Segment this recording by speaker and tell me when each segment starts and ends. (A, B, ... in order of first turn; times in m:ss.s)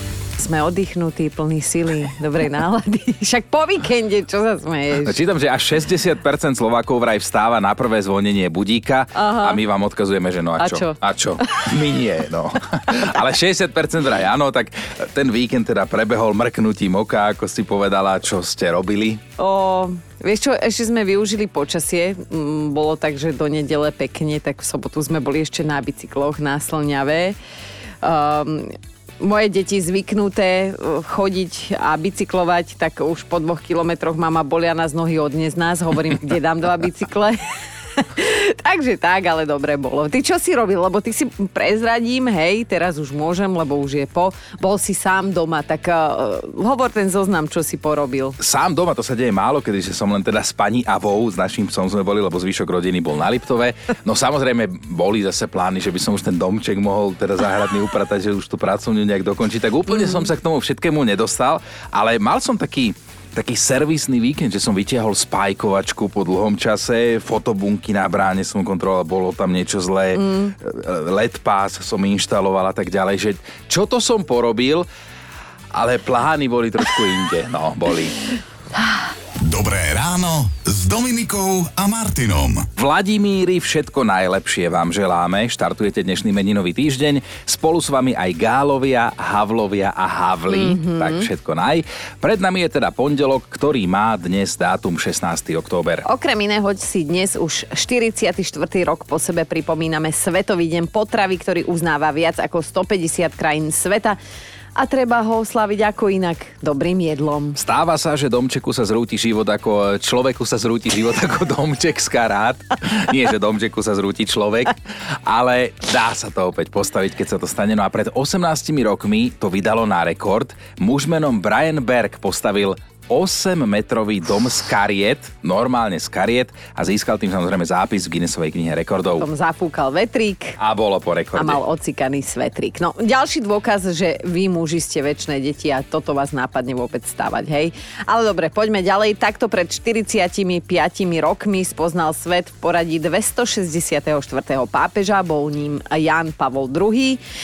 0:00.4-0:05.2 A
0:05.0-0:19.2 B
0:09.2-0:09.6 A
0:10.6-0:11.4 A
0:19.4-0:27.4 A
0:28.0-0:37.4 A
0:38.0-0:48.4 A
0:48.4-1:14.9 B
1:10.2-1:10.5 A
1:15.7-1:18.2 B
1:19.4-1:22.7 C
1:22.8-1:36.0 B
1:30.5-1:31.3 A
1:36.0-1:44.2 A
1:44.8-1:47.6 A
1:47.6-2:09.3 B
2:09.1-2:10.6 A
2:10.6-2:11.6 B
2:11.4-2:27.2 A